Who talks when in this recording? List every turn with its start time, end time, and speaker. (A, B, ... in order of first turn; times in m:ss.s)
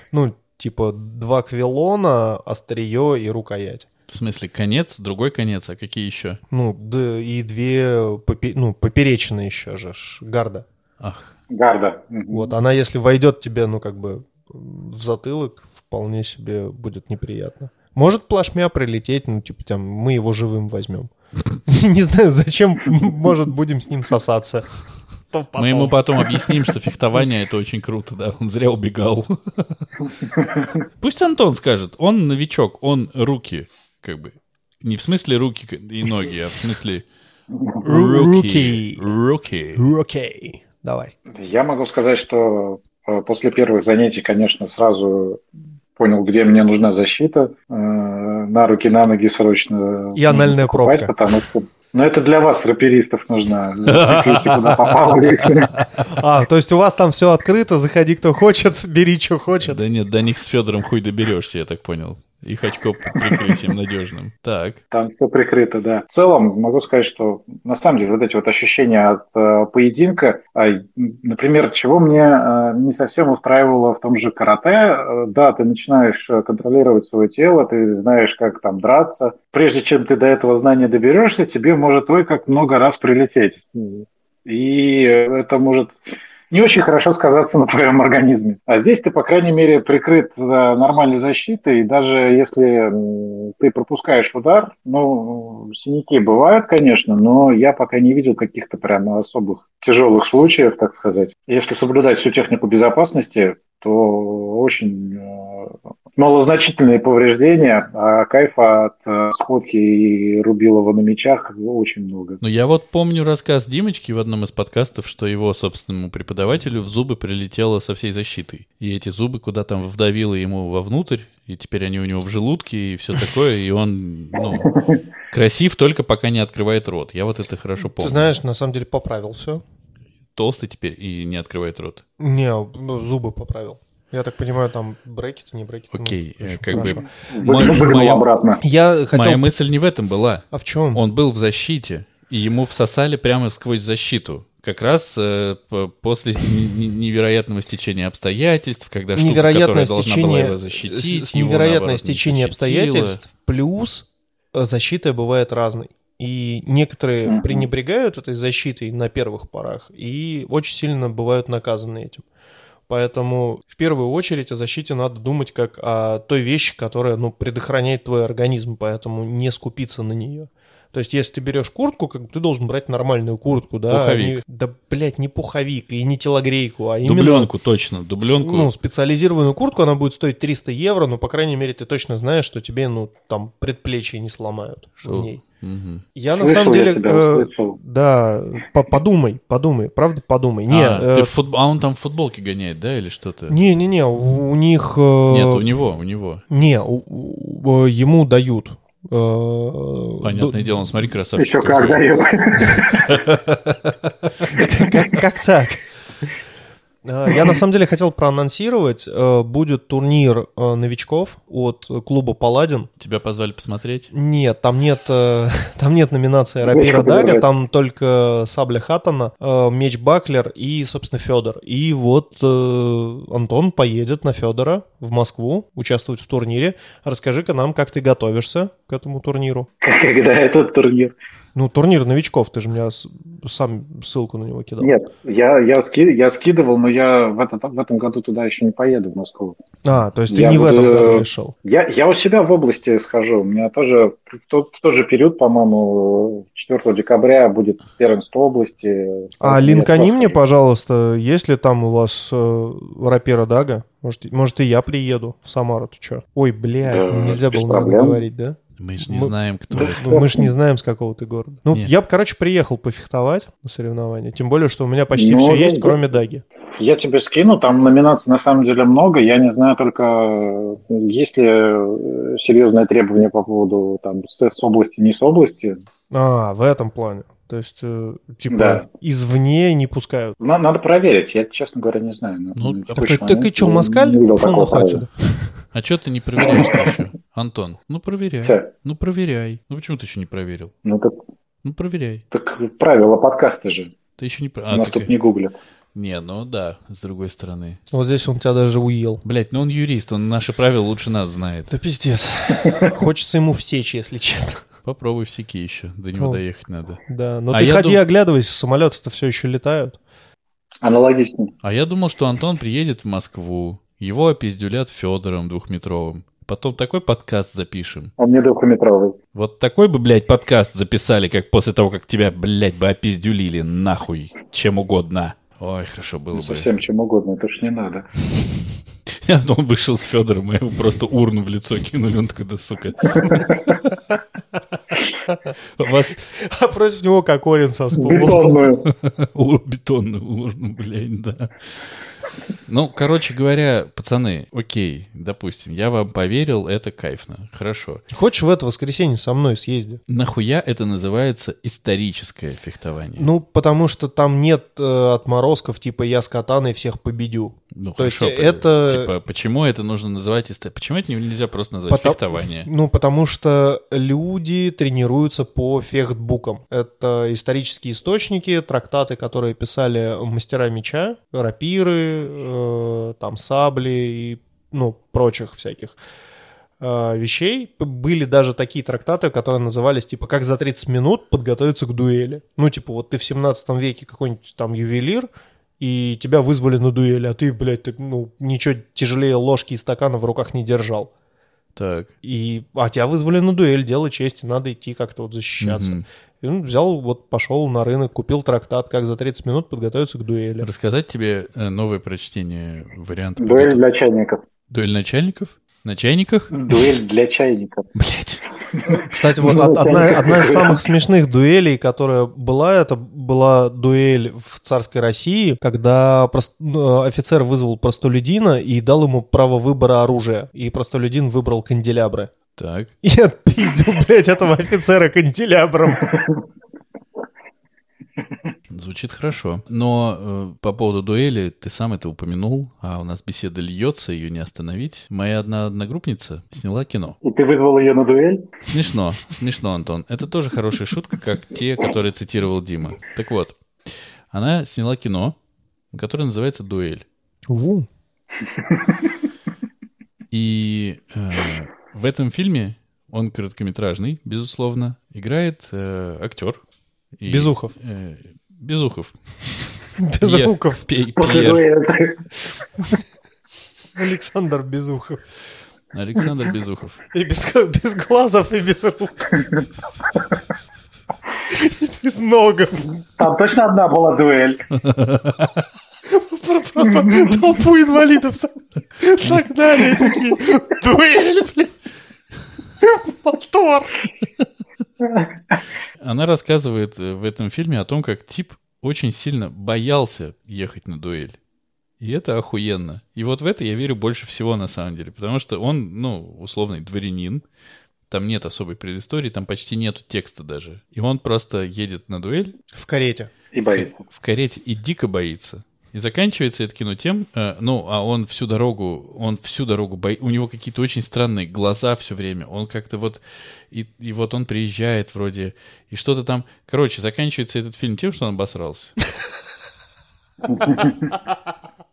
0:00.1-0:03.9 A
0:04.1-0:06.4 B
0:06.5-0:10.6 A
0:11.0-0:11.3 B
0:11.5-0:12.5 C
0:12.3-0:21.1 A
0:21.6-0:24.6 A
0:25.3-0:26.5 A
0:25.6-0:30.0 B
0:30.3-0:30.7 C
0:31.0-0:37.0 B
0:37.5-0:37.8 C
0:37.8-0:39.8 B
0:37.8-0:39.1 A
0:39.8-0:41.1 A
0:41.3-0:45.4 C
0:46.0-0:55.7 C
0:50.1-0:51.1 A
0:53.9-0:55.0 B
0:55.7-0:56.0 B
0:56.0-0:59.8 A
0:59.6-1:04.8 B
1:04.9-1:26.0 C
1:26.5-1:52.4 C
1:52.4-2:04.7 B
2:04.7-2:05.0 C
2:05.3-2:08.3 B
2:08.0-2:09.6 A
2:10.4-2:12.0 B
2:12.2-2:17.0 A
2:15.9-2:18.2 B
2:16.7-2:18.6 C
2:18.6-2:19.5 A
2:19.1-2:33.2 B
2:20.5-2:21.0 A
2:29.1-2:42.2 A
2:37.2-2:37.7 C
2:42.9-2:57.5 A
2:53.9-2:54.4 B
2:57.0-2:58.7 B
2:58.2-3:05.4 A
3:05.0-3:06.0 B
3:06.1-3:11.3 A
3:06.3-3:07.8 C
3:10.7-3:13.6 B
3:13.5-3:15.6 A
3:15.3-3:16.4 B
3:16.5-3:20.9 A
3:20.2-3:22.0 B
3:21.4-3:23.1 C
3:23.0-3:23.9 B
3:24.5-3:25.8 A
3:27.0-3:32.9 A
3:33.0-3:34.1 B
3:34.1-3:49.7 A
3:36.6-3:37.5 C
3:49.8-3:51.1 C
3:51.5-3:54.9 A
3:54.8-3:59.6 C
3:59.8-4:01.5 A
4:00.3-4:10.4 C
4:09.4-4:26.4 A
4:16.8-4:18.2 C
4:18.8-4:20.1 B
4:19.7-4:20.5 C
4:25.1-4:26.0 C
4:26.8-4:35.8 C
4:36.1-4:40.4 A
4:38.5-4:38.8 C
4:40.4-4:45.0 C
4:42.6-4:43.1 B
4:42.9-4:45.5 A
4:45.7-4:50.7 B
4:46.4-4:46.9 C
4:48.4-4:48.7 C
4:50.8-4:51.2 C
4:51.6-4:52.2 B
4:52.3-4:53.9 C
4:54.2-4:55.1 B
4:54.7-4:55.6 C
4:55.9-4:57.8 B
4:57.9-4:59.2 A
4:59.2-5:01.8 B
5:01.7-5:04.6 A
5:02.5-5:02.9 C
5:04.8-5:08.0 B
5:06.2-5:06.4 A
5:07.1-5:10.0 A
5:10.8-5:11.5 C
5:11.6-5:18.1 B
5:18.2-5:19.2 C
5:19.3-5:26.7 B
5:26.3-5:28.0 C
5:29.2-5:33.6 B
5:33.1-5:33.8 C
5:35.8-5:36.2 B
5:36.3-5:38.6 A
5:37.9-5:38.9 C
5:38.8-5:41.5 B
5:42.7-5:48.0 B
5:48.1-5:50.0 A
5:50.1-5:53.3 B
5:53.2-5:59.1 A
5:57.7-6:02.7 B
6:01.9-6:16.0 A
6:16.8-6:25.3 A
6:25.8-6:31.1 A
6:31.8-6:32.1 B
6:32.2-6:40.7 A
6:35.6-6:36.0 B
6:40.6-6:43.8 B
6:43.4-6:44.4 C
6:44.7-6:47.0 B
6:46.5-6:47.9 C
6:47.9-6:48.4 B
6:48.7-6:50.8 C
6:48.9-7:02.3 A
7:02.6-7:02.9 B
7:03.0-7:06.1 A
7:06.1-7:06.4 C
7:08.7-7:17.2 B
7:17.2-7:18.5 C
7:18.6-7:23.6 B
7:24.3-7:25.4 B
7:25.9-7:27.0 B
7:27.5-7:27.9 A
7:30.3-7:36.6 B
7:37.2-7:39.1 B
7:37.3-7:37.7 A
7:40.0-7:40.8 A
7:40.2-7:41.6 B
7:41.2-7:42.2 C
7:44.0-7:45.2 A
7:45.9-7:47.0 B
7:47.1-7:49.4 A
7:51.5-7:52.9 A
7:53.2-7:54.6 C
7:54.8-7:55.6 B
7:56.1-8:02.0 A
7:57.0-7:57.3 C
8:02.8-8:03.9 A
8:06.0-8:11.4 B
8:12.0-8:17.4 B
8:18.1-8:22.5 B
8:22.7-8:23.3 A
8:23.5-8:24.0 C
8:23.7-8:39.0 B
8:40.6-8:40.9 C